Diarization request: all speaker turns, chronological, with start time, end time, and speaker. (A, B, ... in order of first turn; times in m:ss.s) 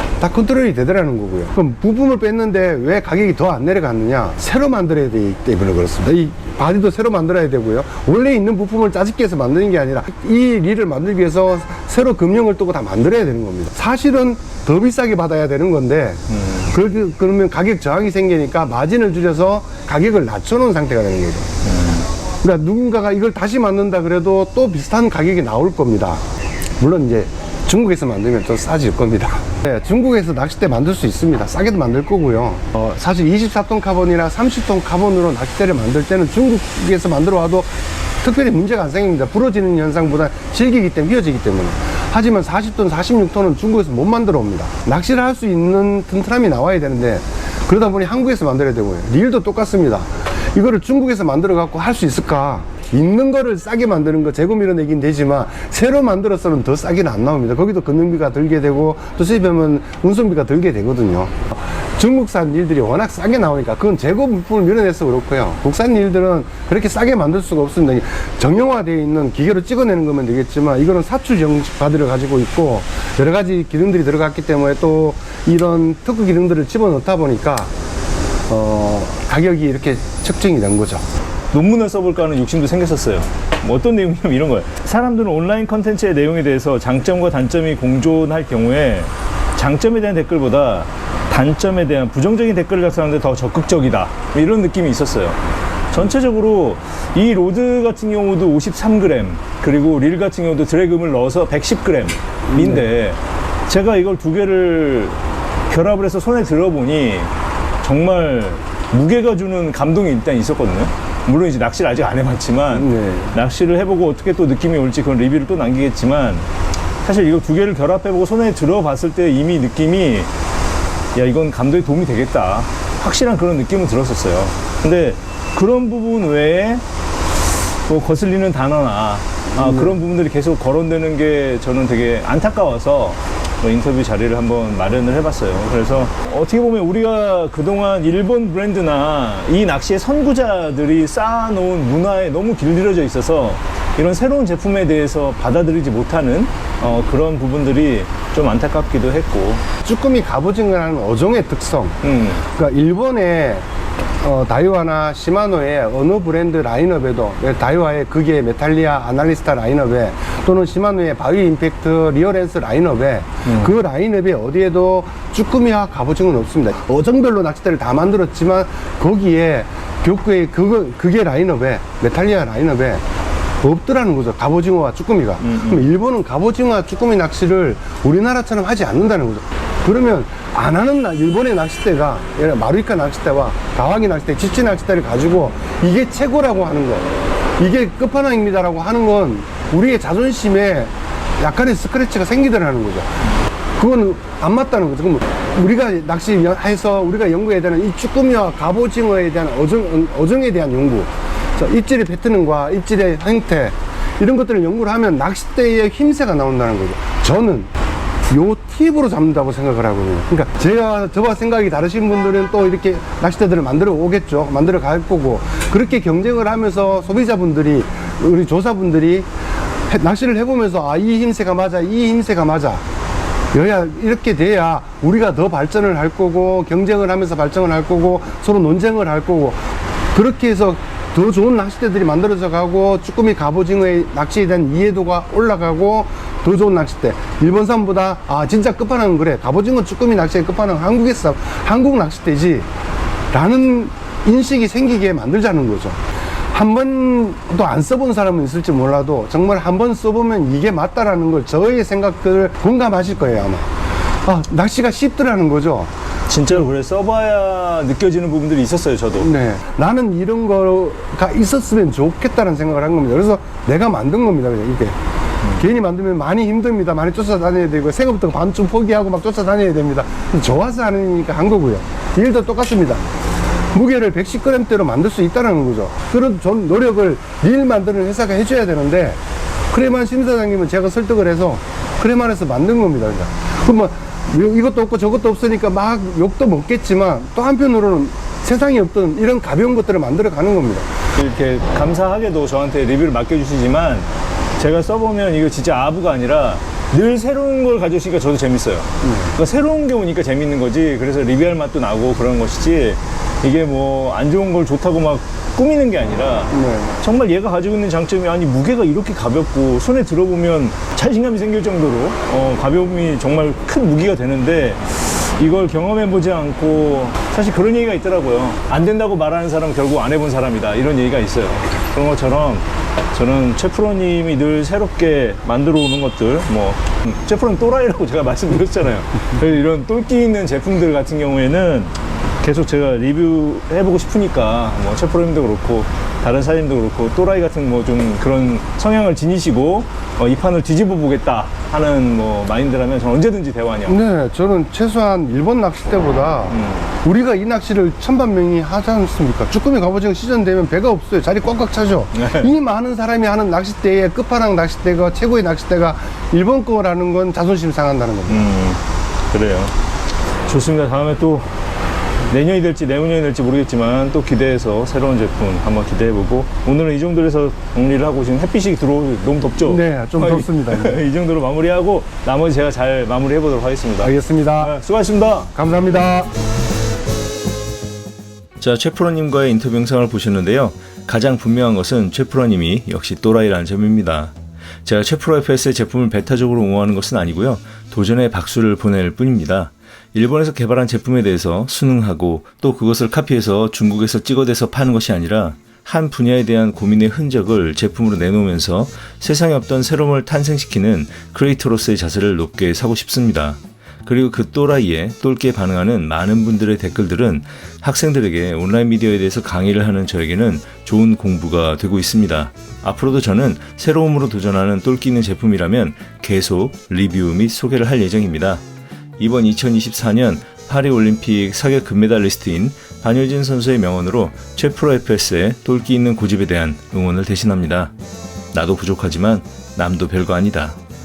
0:00.2-0:21.5 A
0:21.8-0:22.0 B
0:22.4-0:26.2 A
0:26.8-1:17.7 A
1:18.5-1:21.0 A
1:21.5-1:35.4 B
1:35.9-1:45.2 B
1:45.7-1:47.3 B
1:47.8-1:56.4 B
1:52.7-1:53.3 A
1:57.0-2:00.3 B
2:01.2-2:06.8 B
2:07.8-2:29.6 B
2:09.6-2:09.9 A
2:29.8-2:33.6 A
2:32.0-2:32.4 B
2:34.2-2:53.0 A
2:43.4-2:43.7 B
2:53.6-3:13.1 A
2:55.4-2:55.9 B
3:13.8-3:27.7 A
3:28.3-3:39.2 A
3:39.9-3:42.8 A
3:43.5-4:02.6 A
4:03.3-4:06.0 A
4:06.5-4:13.7 A
4:14.2-4:15.9 A
4:16.3-4:19.3 B
4:19.2-4:24.9 A
4:25.5-4:33.0 A
4:33.7-4:39.2 A
4:39.7-4:50.8 A
4:51.1-4:54.1 B
4:54.6-5:44.0 B
4:59.0-4:59.3 A
5:06.5-5:06.9 A
5:43.8-5:58.4 A
5:46.5-5:46.9 B
5:52.1-5:52.5 B
5:58.3-5:58.8 B
5:59.3-5:59.7 B
6:00.4-6:01.5 B
6:02.3-6:15.5 B
6:09.6-6:11.0 A
6:14.0-6:14.7 A
6:15.5-6:16.3 A
6:18.6-6:24.3 C
6:24.8-6:58.6 C
6:59.2-7:07.9 C
7:08.5-7:10.8 C